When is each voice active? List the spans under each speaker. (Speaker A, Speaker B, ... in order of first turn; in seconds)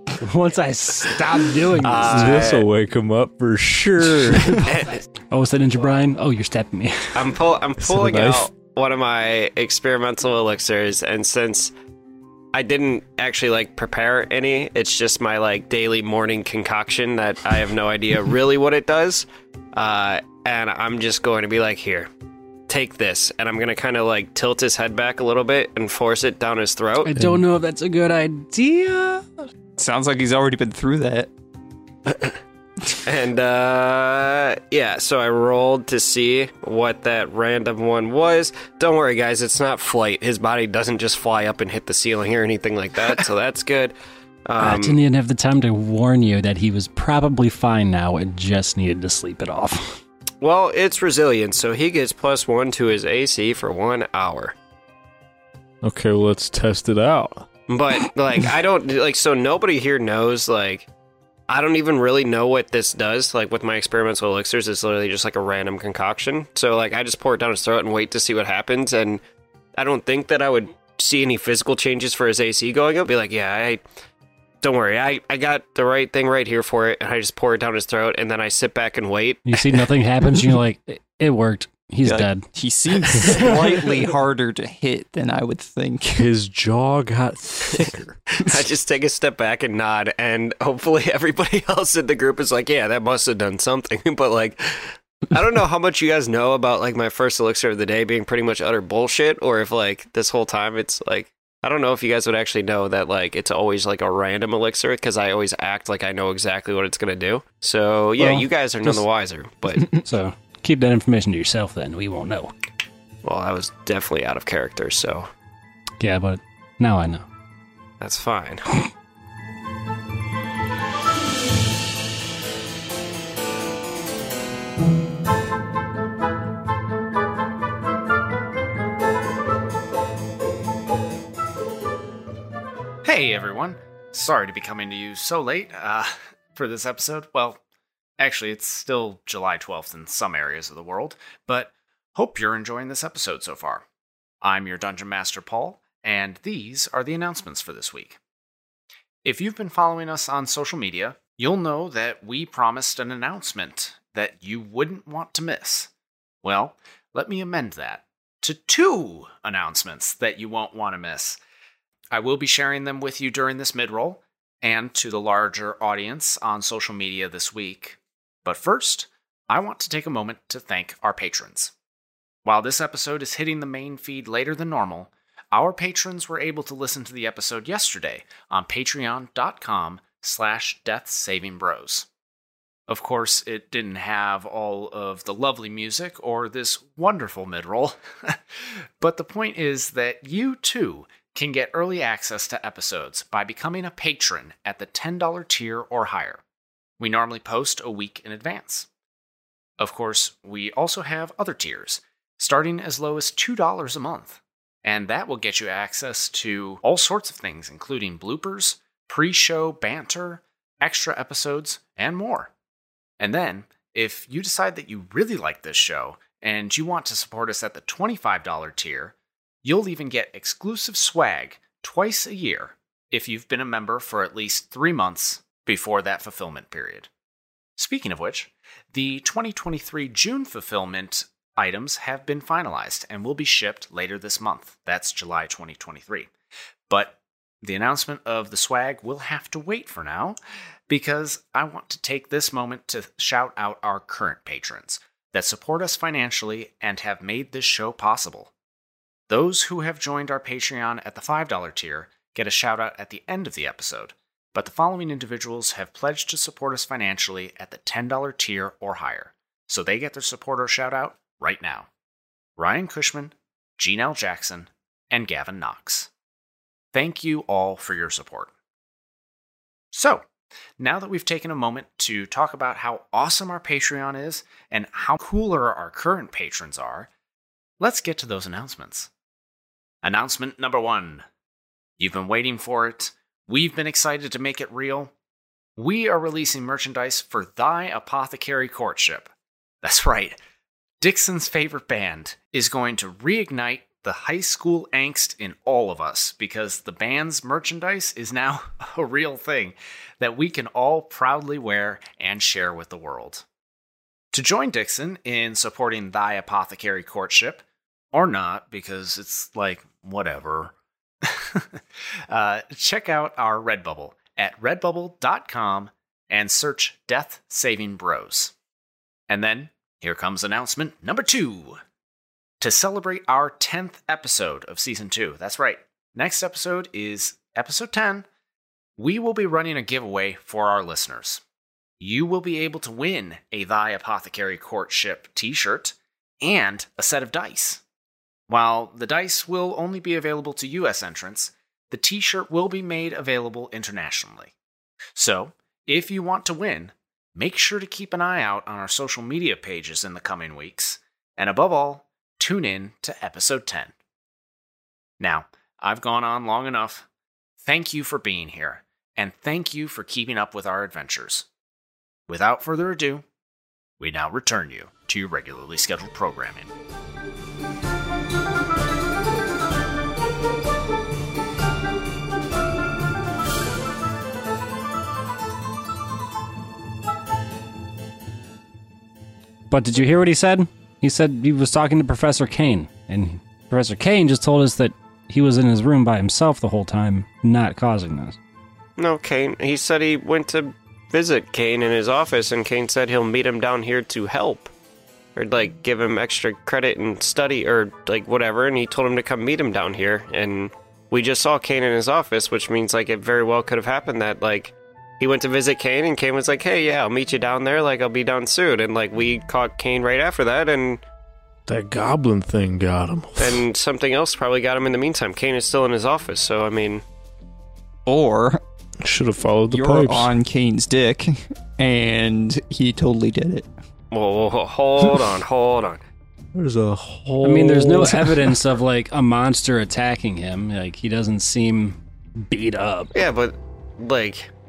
Speaker A: 0.2-2.4, 5.3-7.3, 27.0-29.4, 44.6-50.0, 79.5-82.5, 83.1-83.8, 109.9-112.5, 116.0-117.3, 379.7-388.4, 427.4-433.1
Speaker B: 1.8-2.7, 4.4-5.0, 7.2-11.7, 12.5-22.1, 22.7-27.2, 32.1-32.4, 33.0-44.0, 44.5-45.0, 50.4-54.5, 57.7-60.9, 61.5-69.2, 69.8-73.8, 74.6-79.9, 87.8-110.0, 113.2-115.3, 118.0-118.7, 389.0-394.7, 395.4-411.0, 413.4-417.0, 424.1-426.0, 433.1-434.5
Speaker C: 1.9-4.7, 7.8-8.5, 55.8-57.5, 86.2-88.1, 411.7-413.6, 419.0-420.3, 426.6-428.5
Speaker D: 29.8-31.3, 82.0-86.3, 418.1-418.6, 419.7-423.7
Speaker E: 133.0-137.6, 138.2-143.8, 144.4-148.2, 149.2-155.9, 156.4-161.4, 162.1-171.7, 172.4-182.1, 182.9-188.4, 189.0-196.4, 197.0-198.9, 199.8-212.5, 213.2-227.1, 227.8-236.3, 236.9-240.4, 240.9-248.5, 249.3-261.9, 262.6-266.1, 266.9-268.5, 269.9-270.3, 270.8-277.1, 277.8-279.1, 280.0-281.2, 282.0-285.1, 285.8-290.4, 291.0-303.4, 304.3-318.5, 319.3-321.8, 322.6-328.3, 329.0-331.4, 332.0-337.8, 338.5-344.5, 345.2-353.9, 355.2-357.1, 357.6-361.5, 362.3-363.2, 364.0-366.7